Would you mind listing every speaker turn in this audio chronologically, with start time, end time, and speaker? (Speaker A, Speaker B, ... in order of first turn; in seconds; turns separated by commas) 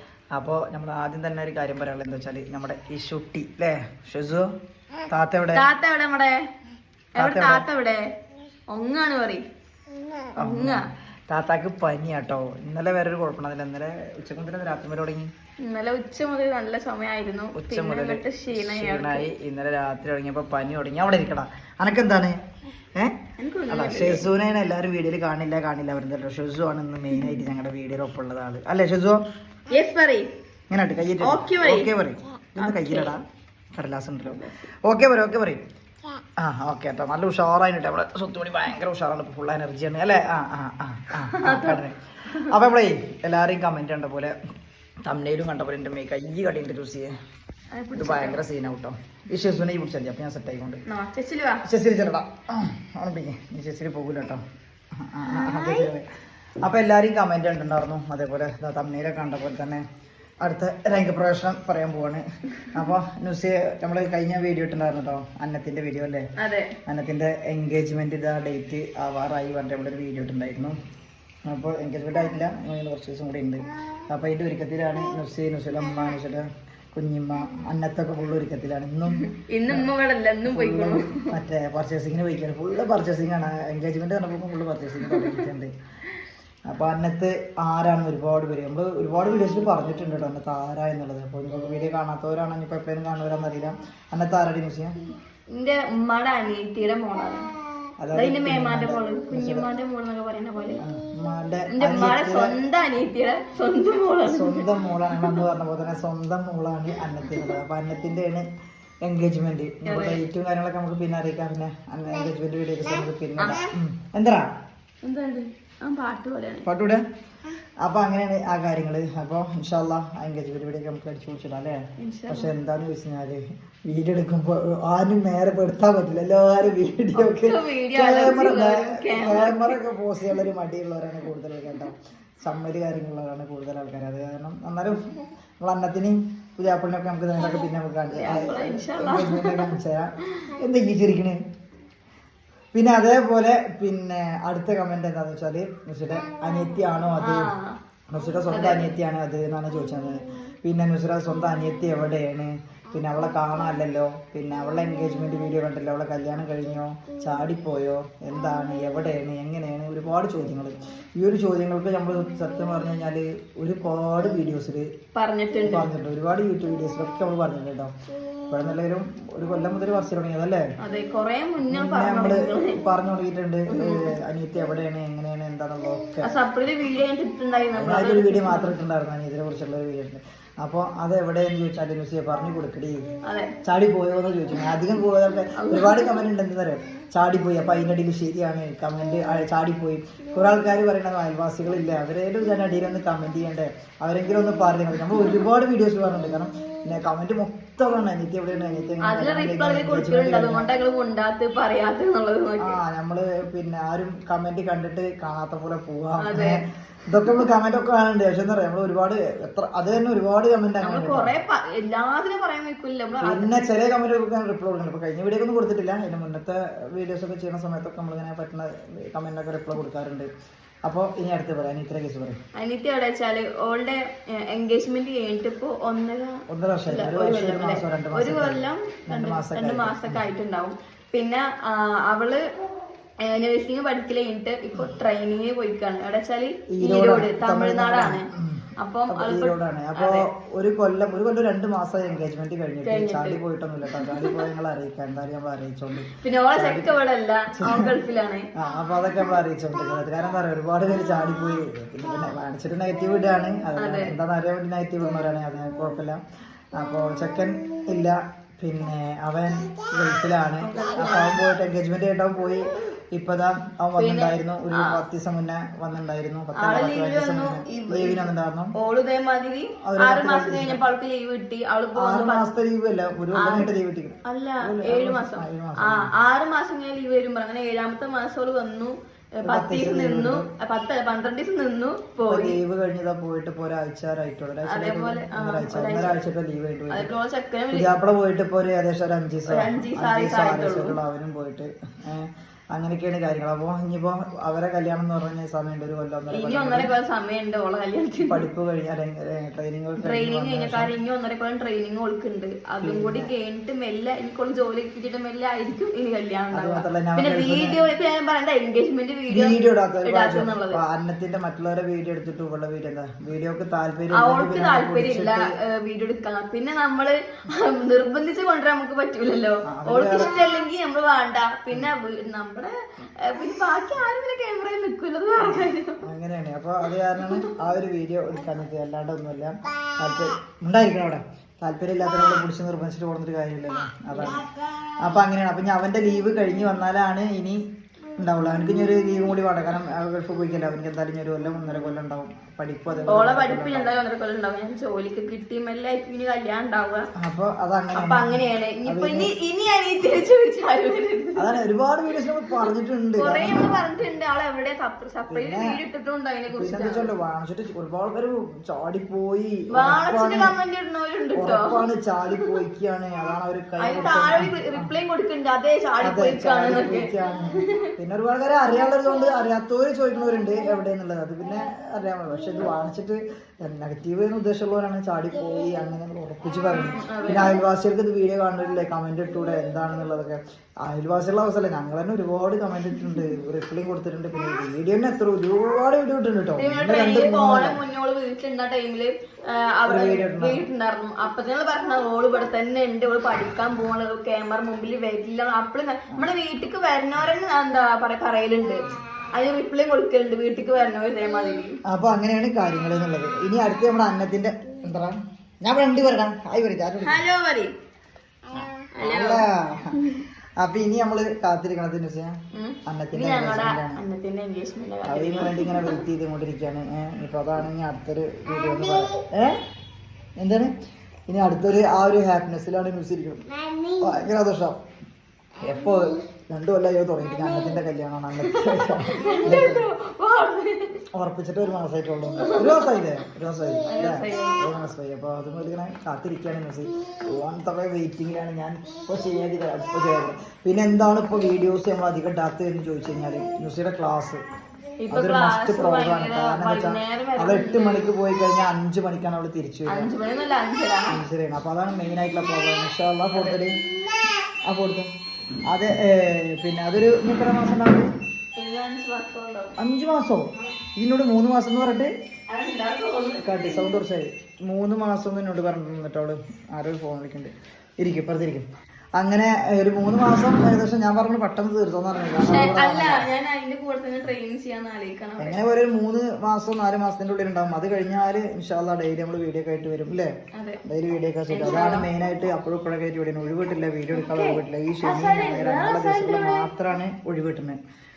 Speaker A: 0.3-4.5, Speaker A: 5.1-5.6, Speaker B: 5.5-6.5, Speaker B: 7.2-8.1, Speaker A: 7.2-7.6, Speaker B: 8.7-9.4, Speaker B: 10.3-10.8, Speaker A: 10.4-15.3, Speaker B: 15.6-19.3, Speaker A: 17.5-22.4, Speaker B: 23.4-24.3, Speaker A: 23.7-29.2, Speaker B: 29.7-30.3, Speaker A: 30.7-33.2, Speaker B: 31.2-31.9, Speaker B: 32.6-33.1, Speaker A: 33.8-35.6, Speaker B: 34.3-34.6, Speaker A: 36.4-44.4, Speaker B: 41.3-42.5, Speaker A: 45.0-47.1, Speaker B: 47.7-48.4, Speaker A: 48.0-50.8, Speaker B: 50.9-51.6, Speaker A: 51.6-54.4, Speaker A: 55.0-56.0, Speaker B: 55.3-55.9, Speaker A: 56.6-59.8, Speaker A: 60.4-66.3, Speaker B: 66.4-66.8, Speaker A: 66.8-70.8, Speaker A: 71.5-79.9, Speaker B: 79.1-81.3, Speaker A: 80.5-85.7, Speaker B: 85.0-85.5, Speaker A: 86.7-95.0, Speaker B: 95.5-97.5, Speaker A: 98.0-99.7, Speaker B: 98.1-100.8, Speaker A: 100.8-102.6, Speaker B: 101.7-105.4, Speaker A: 104.2-108.5, Speaker A: 109.0-114.5, Speaker B: 109.8-110.2, Speaker B: 113.4-113.7, Speaker B: 115.0-116.7, Speaker A: 116.6-117.0, Speaker A: 117.8-135.1, Speaker B: 122.0-122.5, Speaker B: 127.1-129.8, Speaker A: 135.6-141.4, Speaker B: 138.1-139.7, Speaker B: 140.2-140.5, Speaker A: 142.7-147.5, Speaker B: 147.2-147.8, Speaker A: 148.1-164.9, Speaker B: 148.5-148.9, Speaker B: 165.1-165.9, Speaker A: 165.6-167.9, Speaker A: 168.5-170.6, Speaker B: 170.8-172.8, Speaker A: 171.6-176.3, Speaker B: 173.7-174.1, Speaker B: 176.2-178.7, Speaker A: 177.7-183.0, Speaker B: 183.2-183.5, Speaker A: 183.6-200.7, Speaker B: 185.6-186.1, Speaker B: 199.0-202.8, Speaker A: 202.6-211.3, Speaker B: 206.2-206.6, Speaker B: 210.8-213.6, Speaker A: 213.2-220.3, Speaker A: 220.8-222.4, Speaker B: 222.6-232.4, Speaker A: 226.5-230.2, Speaker B: 233.2-240.3, Speaker A: 236.7-246.9, Speaker B: 242.8-244.4, Speaker B: 246.1-248.5, Speaker A: 247.6-247.9, Speaker A: 248.6-256.2, Speaker B: 253.8-254.2, Speaker A: 256.7-268.7, Speaker B: 260.6-261.4, Speaker B: 264.0-265.0, Speaker B: 266.6-268.2, Speaker B: 268.8-272.4, Speaker A: 269.8-270.8, Speaker A: 271.9-276.1, Speaker B: 273.4-273.7, Speaker B: 274.2-282.6, Speaker A: 279.4-280.5, Speaker A: 282.2-287.1, Speaker B: 284.7-286.1, Speaker B: 286.9-287.9, Speaker A: 287.7-296.9, Speaker B: 289.5-291.0, Speaker B: 296.3-298.4, Speaker A: 298.3-300.9, Speaker B: 300.0-310.8, Speaker A: 302.8-303.3, Speaker A: 306.5-307.8, Speaker A: 309.3-315.5, Speaker B: 314.1-326.0, Speaker A: 319.6-320.4, Speaker A: 325.4-334.5, Speaker B: 327.2-327.6, Speaker B: 334.1-334.4, Speaker A: 335.0-337.6, Speaker A: 338.2-343.9, Speaker B: 343.1-347.1, Speaker A: 347.1-349.3, Speaker B: 347.9-351.6, Speaker A: 351.4-353.9, Speaker B: 352.4-352.7, Speaker B: 353.2-357.1, Speaker A: 355.3-355.8, Speaker A: 356.5-360.5, Speaker B: 359.7-361.8, Speaker A: 361.4-364.9, Speaker B: 363.8-367.9, Speaker A: 366.0-387.8, Speaker B: 376.8-377.6, Speaker B: 386.6-401.8, Speaker A: 389.9-390.6, Speaker A: 401.9-407.2, Speaker B: 407.0-407.7, Speaker A: 408.6-414.0, Speaker B: 408.9-410.2, Speaker B: 412.5-416.0, Speaker A: 415.1-419.6, Speaker A: 420.4-420.7, Speaker A: 421.3-424.8, Speaker A: 425.6-429.9, Speaker B: 428.4-431.0, Speaker A: 431.1-444.4, Speaker B: 432.4-433.0, Speaker B: 433.9-434.6, Speaker B: 445.0-448.1, Speaker A: 445.1-450.1, Speaker B: 449.9-451.2, Speaker A: 451.1-453.8, Speaker A: 454.6-455.1, Speaker A: 455.7-458.1, Speaker B: 458.6-459.8, Speaker A: 459.8-462.1, Speaker B: 462.5-464.0, Speaker A: 463.4-473.2, Speaker B: 472.4-475.6, Speaker A: 475.4-480.3, Speaker B: 480.5-480.8, Speaker A: 480.8-487.8, Speaker B: 481.5-482.1, Speaker B: 484.1-486.7